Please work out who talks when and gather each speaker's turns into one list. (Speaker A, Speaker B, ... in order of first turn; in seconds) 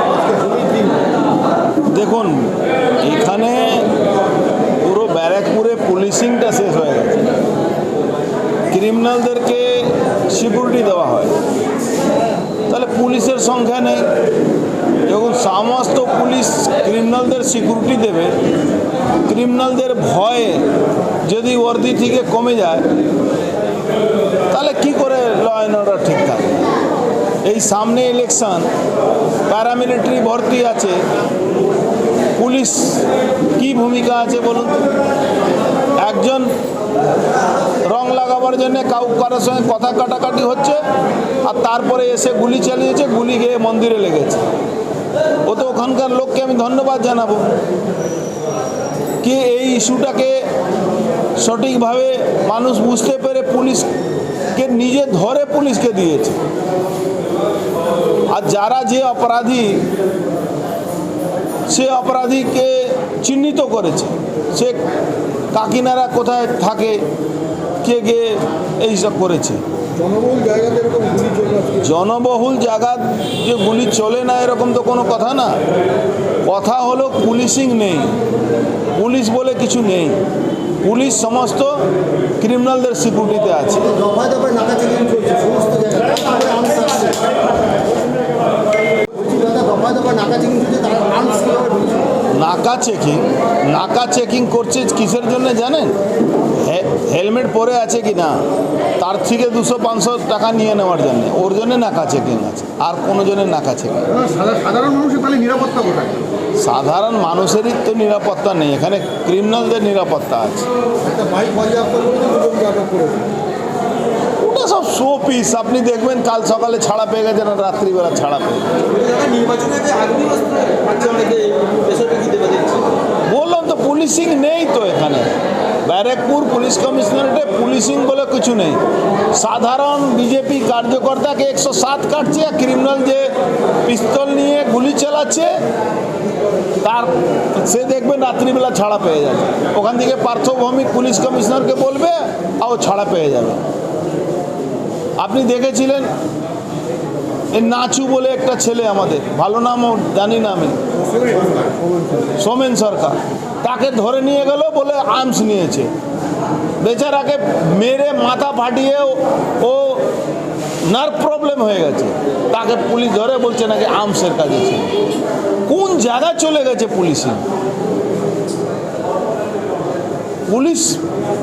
Speaker A: 0.2-1.0, 70.0-71.9, 83.9-87.3, 89.1-92.1, 104.1-106.3, 111.0-113.2, 118.8-122.9
Speaker B: 1.9-3.9, 4.8-7.2, 8.7-11.3, 12.7-14.1, 15.1-18.4, 19.2-20.6, 21.2-22.9, 24.5-26.7, 27.4-28.7, 29.5-31.0, 32.4-34.9, 36.0-36.5, 37.8-40.8, 41.5-44.5, 45.5-47.5, 49.2-50.4, 51.4-53.9, 54.5-56.4, 58.3-59.9, 61.7-64.8, 65.5-67.0, 67.8-69.6, 71.8-75.6, 76.4-78.2, 78.9-80.2, 80.8-81.9, 82.4-84.0, 92.3-96.0, 96.5-98.4, 99.0-104.1, 106.6-110.7, 114.4-118.8, 123.3-125.3, 125.8-128.8, 129.3-135.5, 136.8-143.6, 145.2-146.1, 147.5-150.8, 152.4-155.9, 156.8-160.1, 160.8-164.9, 165.7-167.5, 170.5-171.0